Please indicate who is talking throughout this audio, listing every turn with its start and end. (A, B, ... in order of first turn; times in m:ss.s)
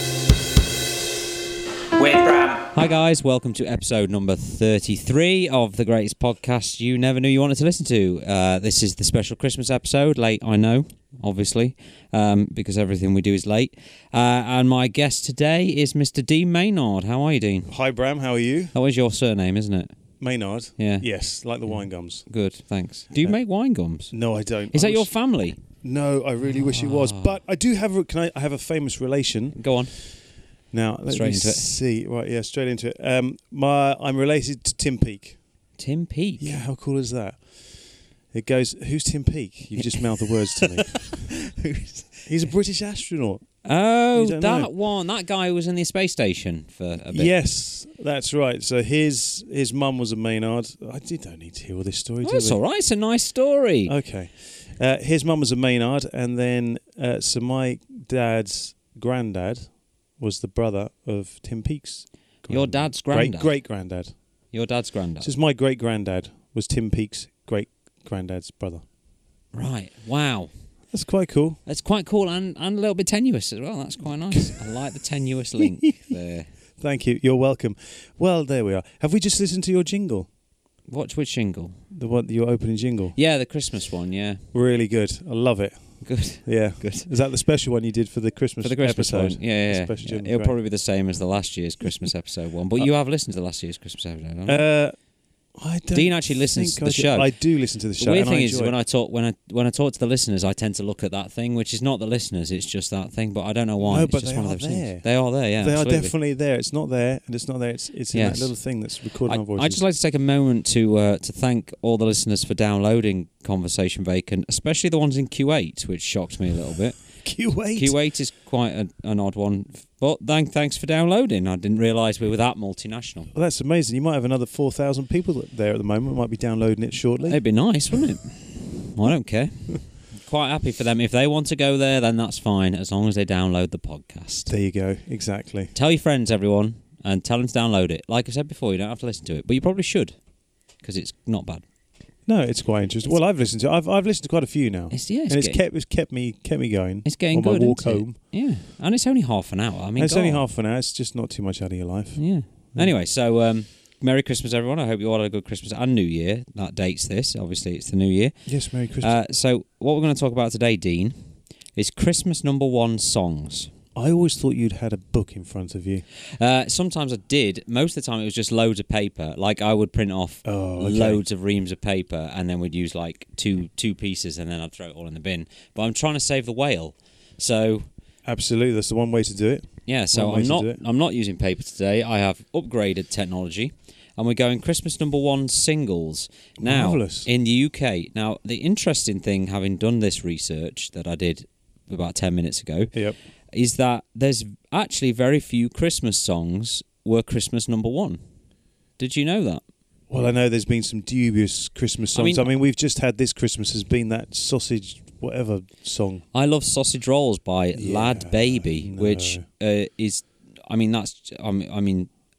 0:02.0-0:17.7 A
0:17.7-0:18.7 B
0:18.7-0:19.9 A
0:20.2-0:22.3 B
0:20.8-0:21.1 A
0:22.3-0:24.1 A
0:24.1-0:25.1 B
0:24.7-0:25.6 A
0:25.7-0:30.0 B
0:26.5-0:27.4 A
0:29.6-0:30.0 A
0:30.7-0:35.4 B
0:31.1-0:31.7 A
0:35.8-0:36.6 A
0:36.4-0:37.7 B
0:38.3-0:43.4 B
0:39.8-0:41.0 A
0:43.6-0:47.3 A
0:44.2-0:44.7 B
0:47.1-0:52.6 B
0:52.2-0:53.9 A
0:53.9-1:04.2 B
1:02.5-1:03.5 A
1:04.5-1:05.3 A
1:05.2-1:08.8 B
1:09.5-1:10.5 A
1:10.9-1:11.6 B
1:11.7-1:16.5 A
1:14.3-1:14.6 B
1:16.8-1:20.3 B
1:20.9-1:21.8 A
1:21.9-1:23.2 B
1:23.2-1:24.4 A
1:24.5-1:30.6 B
1:26.0-1:27.1 A
1:28.6-1:34.6 A
1:34.5-1:35.0 B
1:35.6-1:38.7 B
1:35.9-1:37.3 A
1:38.0-1:46.1 A
1:43.8-1:45.1 B
1:45.6-1:49.8 B
1:48.1-1:48.5 A
1:49.2-1:57.0 A
1:57.2-1:58.0 B
1:57.8-2:03.3 A
2:03.3-2:07.4 B
2:07.2-2:14.5 A
2:14.5-2:15.7 B
2:15.7-2:20.2 A
2:20.8-2:21.6 A
2:22.3-2:28.2 B
2:24.9-2:25.6 A
2:27.0-2:30.4 A
2:30.0-2:32.9 B
2:32.2-2:38.4 A
2:38.5-2:39.1 B
2:39.0-2:41.2 A
2:41.8-2:43.7 A
2:44.0-2:46.0 B
2:46.4-2:57.8 A
2:50.4-2:51.2 B
2:58.2-3:00.8 B
2:59.9-3:13.0 A
3:06.6-3:07.3 B
3:13.5-3:18.2 A
3:19.0-3:19.6 A
3:20.1-3:26.2 B
3:22.2-3:22.5 A
3:26.3-3:32.1 A
3:27.8-3:29.4 B